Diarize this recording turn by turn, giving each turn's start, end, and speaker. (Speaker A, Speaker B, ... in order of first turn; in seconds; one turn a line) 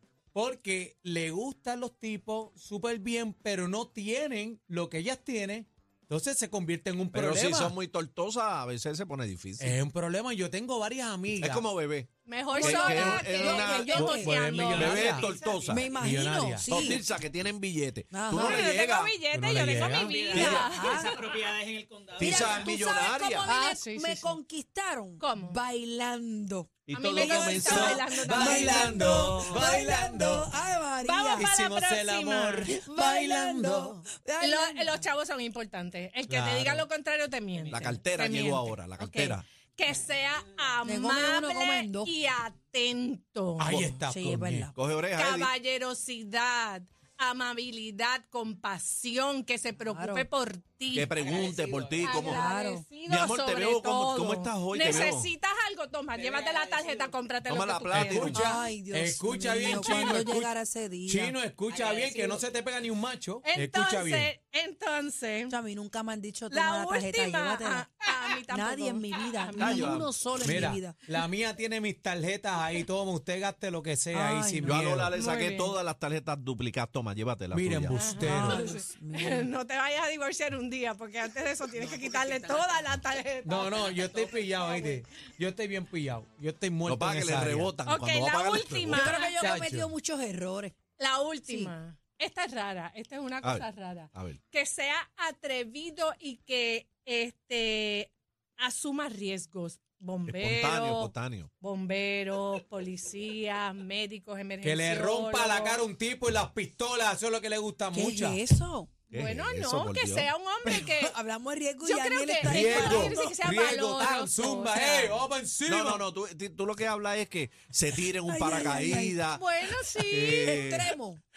Speaker A: 0.3-7.8
Speaker B: 7.1-9.8
Speaker A: 9.6-11.7
Speaker B: 11.4-15.9
Speaker C: 12.3-15.2
Speaker D: 12.5-15.0
Speaker A: 13.9-15.3
Speaker E: 15.1-16.0
Speaker D: 15.7-17.0
Speaker A: 15.9-16.9
Speaker B: 16.7-19.1
Speaker D: 18.1-18.7
Speaker C: 18.3-21.1
Speaker A: 19.2-20.3
Speaker E: 19.9-22.3
Speaker B: 20.3-20.7
Speaker D: 20.3-21.4
Speaker B: 22.2-23.5
Speaker D: 22.2-31.5
Speaker C: 23.5-24.4
Speaker C: 25.2-25.6
Speaker B: 26.9-27.9
Speaker C: 26.9-29.6
Speaker A: 27.7-30.6
Speaker C: 31.0-32.8
Speaker A: 31.3-34.0
Speaker D: 32.7-35.1
Speaker C: 34.4-43.8
Speaker A: 36.3-36.9
Speaker B: 37.7-39.5
Speaker D: 40.8-42.1
Speaker A: 43.6-44.7
Speaker B: 43.7-44.0
Speaker D: 44.0-44.7
Speaker B: 44.8-45.5
Speaker C: 45.1-51.4
Speaker D: 49.9-50.3
Speaker B: 50.9-52.4
Speaker E: 51.1-52.2
Speaker C: 52.0-58.6
Speaker D: 52.1-52.9
Speaker B: 53.0-55.3
Speaker E: 56.1-57.1
Speaker B: 57.5-58.4
Speaker A: 58.0-60.5
Speaker D: 58.3-61.4
Speaker A: 61.1-64.3
Speaker E: 61.7-62.4
Speaker C: 63.4-65.6
Speaker D: 65.5-71.0
Speaker C: 66.5-70.0
Speaker B: 69.6-70.1
Speaker A: 70.4-75.2
Speaker D: 74.1-74.8
Speaker B: 74.6-78.0
Speaker C: 75.1-75.8
Speaker A: 77.5-78.7
Speaker C: 77.9-84.0
Speaker D: 78.2-79.5
Speaker E: 81.9-82.6
Speaker A: 83.4-87.7
Speaker C: 84.6-85.0
Speaker B: 86.8-89.2
Speaker C: 87.9-89.4
Speaker D: 88.9-90.8
Speaker A: 89.2-89.9
Speaker C: 91.0-105.8
Speaker D: 91.5-91.7
Speaker B: 93.4-94.4
Speaker B: 100.3-101.5
Speaker A: 104.6-108.4
Speaker D: 107.9-108.9
Speaker B: 109.1-110.3
Speaker C: 109.1-111.2
Speaker D: 110.7-113.6
Speaker C: 111.8-115.2
Speaker A: 112.4-116.0
Speaker B: 115.7-119.4
Speaker D: 118.2-119.2
Speaker C: 119.3-120.6
Speaker B: 120.1-120.9
Speaker D: 120.4-121.2